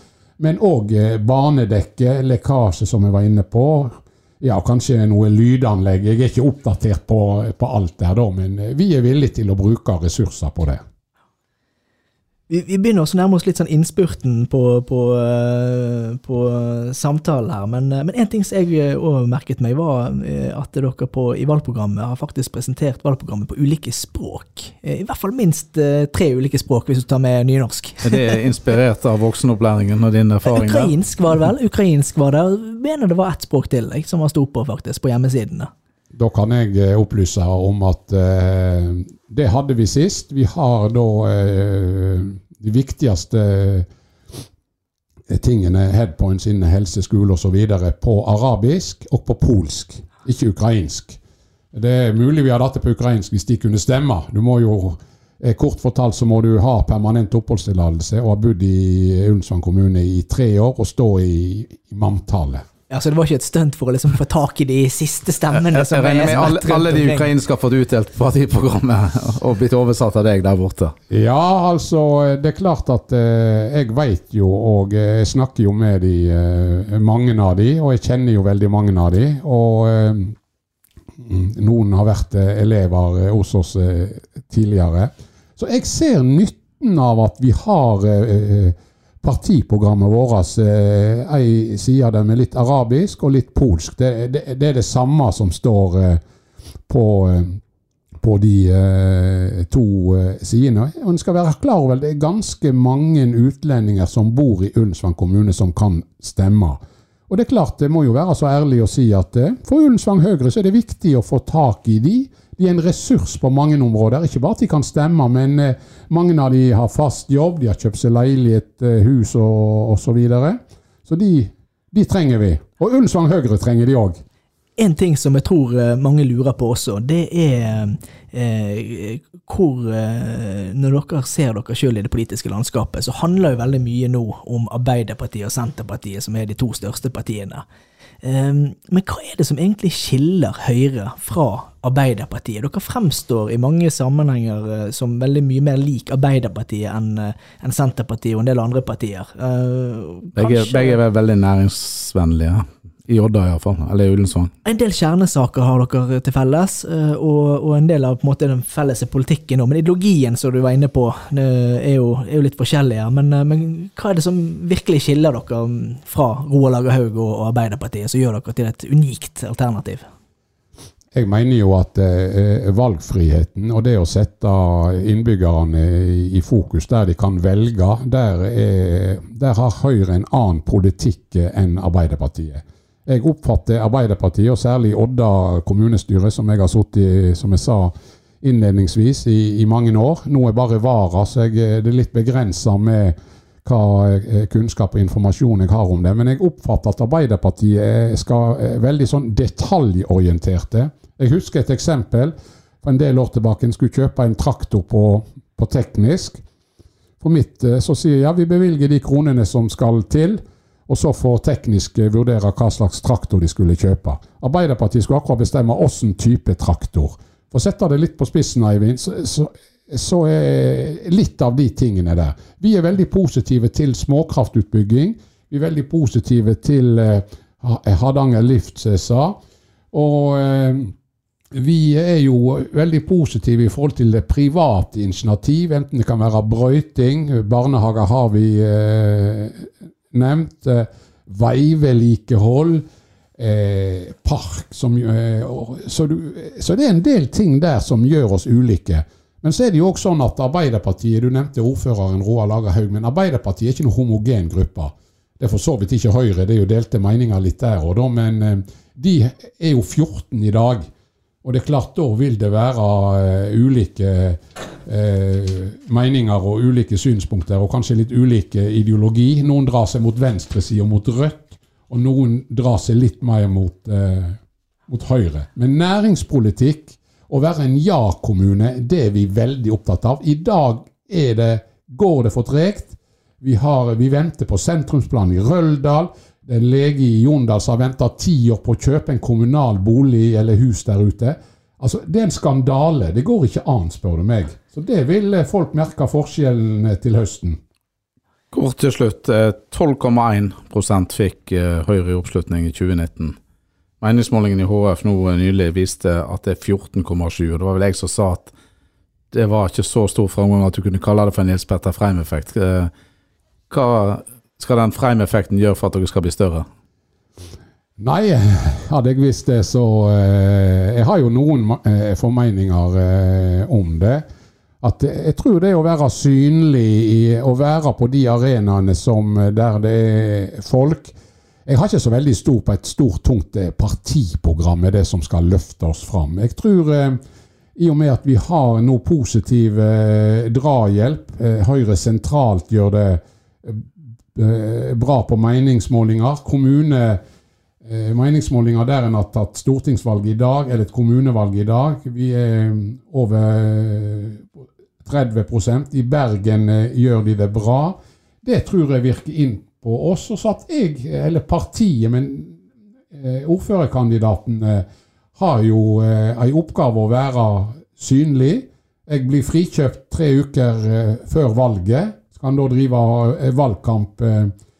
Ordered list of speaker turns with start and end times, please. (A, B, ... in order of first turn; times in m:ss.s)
0:00.4-0:10.8 A
0:12.5-0:28.4 B
0:28.0-0:30.9 C
0:30.4-0:35.7 B
0:36.1-0:43.9 A
0:45.3-0:51.2 A
0:51.7-1:02.6 A
1:02.9-1:07.3 B
1:05.5-1:10.9 C
1:11.1-1:20.4 A
1:21.2-1:36.2 A
1:36.9-1:37.6 A
1:38.2-2:04.2 A
2:04.8-2:17.6 B
2:18.2-2:31.0 B
2:30.4-2:34.5 C
2:34.6-2:50.0 B
2:51.1-3:26.4 A
3:27.2-3:49.4 A
3:49.9-3:50.9 A
3:51.5-4:02.8 A
4:03.4-4:20.9 A
4:21.4-4:57.6 A
4:58.5-5:03.4 C
5:04.0-5:08.5 C
5:09.3-5:12.9 C
5:13.7-5:16.6 C
5:18.0-5:24.2 A
5:24.8-5:31.1 A
5:31.6-5:37.2 A
5:37.8-5:47.2 A
5:47.8-5:54.5 A
5:55.0-6:02.6 A
6:03.1-6:14.5 A